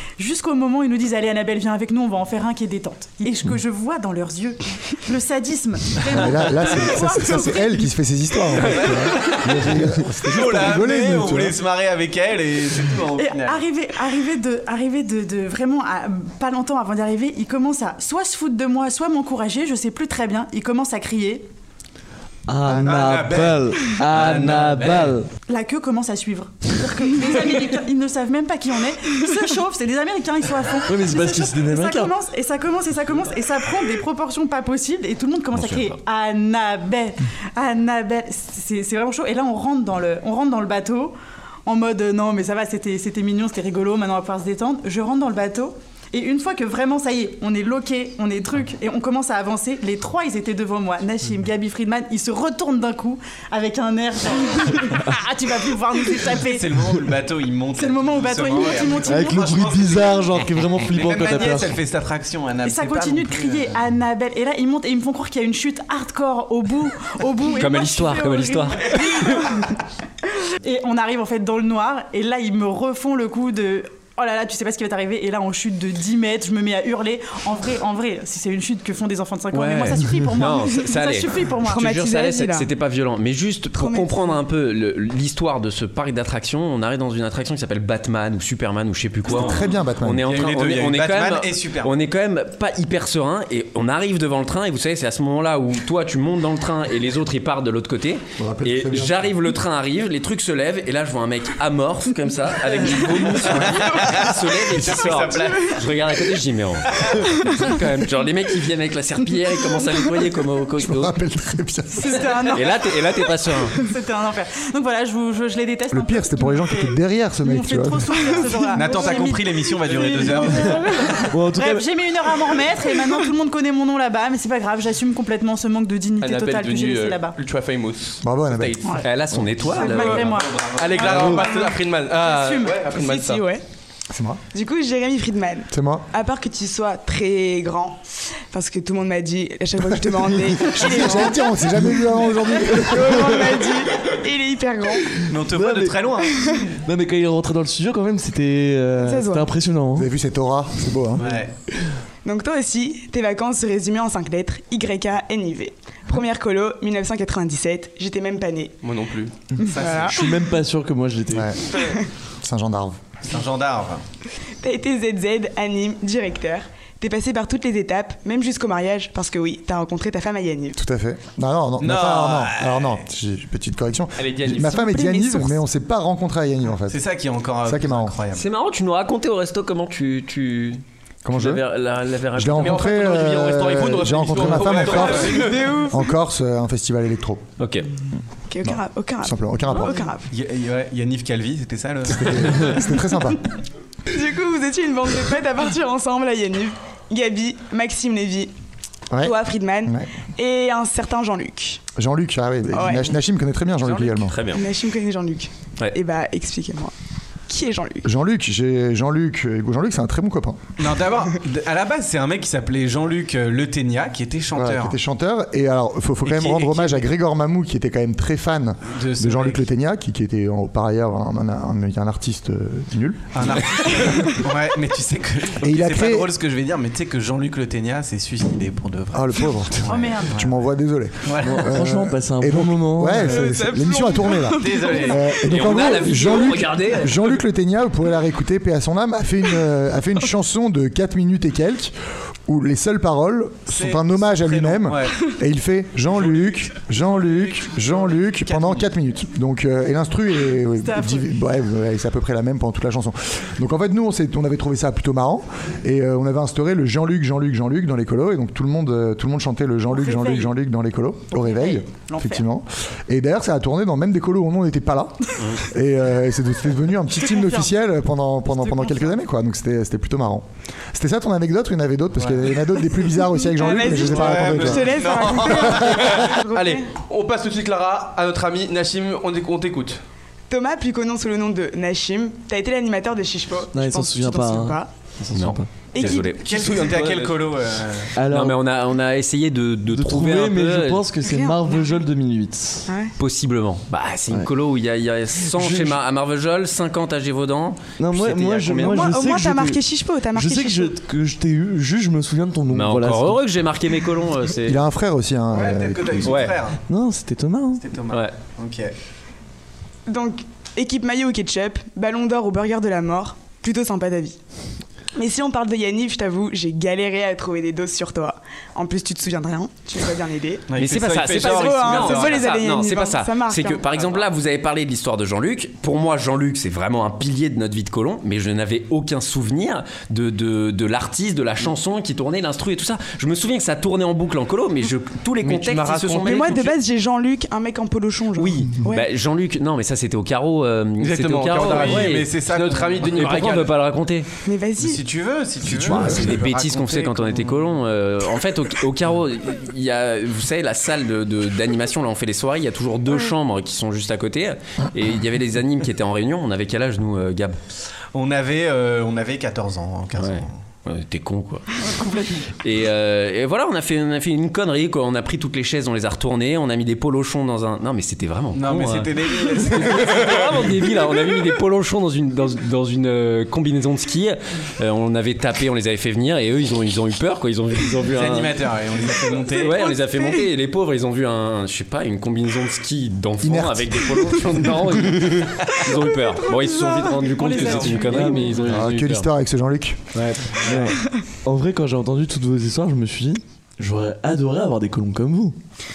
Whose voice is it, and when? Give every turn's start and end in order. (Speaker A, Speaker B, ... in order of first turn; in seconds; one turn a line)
Speaker A: 0.2-7.9
Speaker B: 6.1-11.6
Speaker C: 8.8-13.6
Speaker A: 13.2-21.5
Speaker D: 22.5-25.3
Speaker C: 22.8-25.2
Speaker A: 25.5-41.1
Speaker D: 30.9-32.1
Speaker E: 35.5-35.9
Speaker A: 41.7-56.7
Speaker C: 56.4-63.8
Speaker A: 57.8-59.5
Speaker D: 59.1-61.8
Speaker A: 62.6-69.5
Speaker E: 67.5-69.5
Speaker A: 70.6-81.9
Speaker E: 79.5-111.2
Speaker F: 81.6-82.7
Speaker F: 83.7-84.2
Speaker B: 89.3-90.3
Speaker C: 89.3-89.6
Speaker C: 90.2-91.9
Speaker B: 98.4-99.3
Speaker C: 103.3-105.9
Speaker C: 107.0-107.3
Speaker B: 110.8-112.4
Speaker A: 112.0-112.9
Speaker E: 112.5-113.8
Speaker A: 113.8-127.3
Speaker B: 115.9-118.4
Speaker C: 118.7-120.9
Speaker D: 121.3-121.9
Speaker G: 126.2-129.0
Speaker B: 128.2-128.8
Speaker E: 129.0-130.4
Speaker A: 129.7-132.8
Speaker G: 129.8-133.4
Speaker C: 130.3-131.2
Speaker F: 132.9-133.6
Speaker B: 134.1-134.4
Speaker F: 134.5-141.6
Speaker B: 135.7-136.1
Speaker B: 140.6-143.3
Speaker F: 142.3-145.2
Speaker C: 145.3-146.6
Speaker D: 145.5-146.0
Speaker D: 146.8-150.1
Speaker F: 149.0-149.5
Speaker B: 150.0-151.3
Speaker C: 151.2-151.5
Speaker F: 152.2-158.8
Speaker G: 158.8-159.3
Speaker F: 159.6-160.2
Speaker C: 159.7-160.3
Speaker D: 160.1-161.6
Speaker B: 161.3-161.6
Speaker F: 161.8-162.1
Speaker B: 162.4-163.0
Speaker C: 163.2-164.0
Speaker F: 164.6-170.8
Speaker B: 170.8-177.0
Speaker C: 171.8-173.0
Speaker G: 174.2-174.9
Speaker C: 176.9-178.4
Speaker B: 177.6-178.1
Speaker E: 178.3-182.8
Speaker B: 181.2-181.6
Speaker B: 182.3-187.4
Speaker G: 182.6-185.6
Speaker C: 184.8-185.2
Speaker F: 185.0-186.1
Speaker E: 187.6-187.9
Speaker F: 188.5-190.3
Speaker B: 188.7-190.0
Speaker C: 190.3-192.8
Speaker B: 192.1-193.4
Speaker F: 194.1-198.5
Speaker F: 199.2-201.8
Speaker B: 202.0-204.4
Speaker F: 202.7-203.2
Speaker E: 204.3-204.6
Speaker F: 204.5-206.9
Speaker F: 207.5-208.1
Speaker B: 208.0-210.6
Speaker C: 210.8-215.0
Speaker B: 214.6-223.6
Speaker C: 216.2-217.0
Speaker C: 218.9-219.6
Speaker C: 223.3-230.6
Speaker B: 225.6-226.3
Speaker B: 229.1-241.9
Speaker A: 229.9-230.5
Speaker C: 231.2-231.8
Speaker D: 231.4-233.4
Speaker F: 233.2-235.2
Speaker C: 234.6-235.3
Speaker E: 235.4-237.3
Speaker B: 242.5-276.1
Speaker C: 243.7-245.2
Speaker C: 246.1-248.9
Speaker A: 250.8-251.3
Speaker A: 259.9-260.5
Speaker A: 261.3-262.4
Speaker A: 267.3-267.7
Speaker A: 268.6-269.1
Speaker C: 272.2-272.5
Speaker F: 273.2-276.9
Speaker C: 274.0-276.2
Speaker G: 276.1-280.0
Speaker F: 280.5-284.9
Speaker D: 283.7-285.7
Speaker E: 285.3-286.8
Speaker F: 285.9-286.4
Speaker C: 286.0-288.1
Speaker G: 286.6-287.4
Speaker D: 288.2-288.6
Speaker E: 288.3-291.1
Speaker D: 289.9-292.9
Speaker F: 291.2-291.8
Speaker F: 292.9-293.1
Speaker E: 293.2-299.1
Speaker D: 295.4-296.0
Speaker D: 298.0-303.4
Speaker F: 298.8-301.0
Speaker E: 302.7-304.8
Speaker B: 304.6-306.5
Speaker C: 305.5-306.8
Speaker E: 306.2-306.6
Speaker D: 306.9-307.8
Speaker C: 307.8-308.9
Speaker F: 310.1-314.4
Speaker F: 315.2-323.9
Speaker C: 320.7-322.5
Speaker E: 320.8-336.8
Speaker G: 335.4-336.7
Speaker F: 336.2-339.1
Speaker E: 338.4-342.3
Speaker G: 341.0-343.7
Speaker C: 341.5-343.5
Speaker E: 343.0-344.3
Speaker F: 344.4-345.0
Speaker C: 344.8-347.6
Speaker E: 345.7-357.6
Speaker B: 345.8-346.4
Speaker C: 358.1-360.5
Speaker E: 360.2-361.9
Speaker E: 362.6-378.6
Speaker C: 368.6-370.8
Speaker C: 378.1-380.0
Speaker E: 379.6-389.3
Speaker B: 383.4-384.9
Speaker A: 387.2-388.5
Speaker D: 388.1-388.5
Speaker B: 388.6-390.0
Speaker E: 390.1-390.6
Speaker D: 390.6-395.6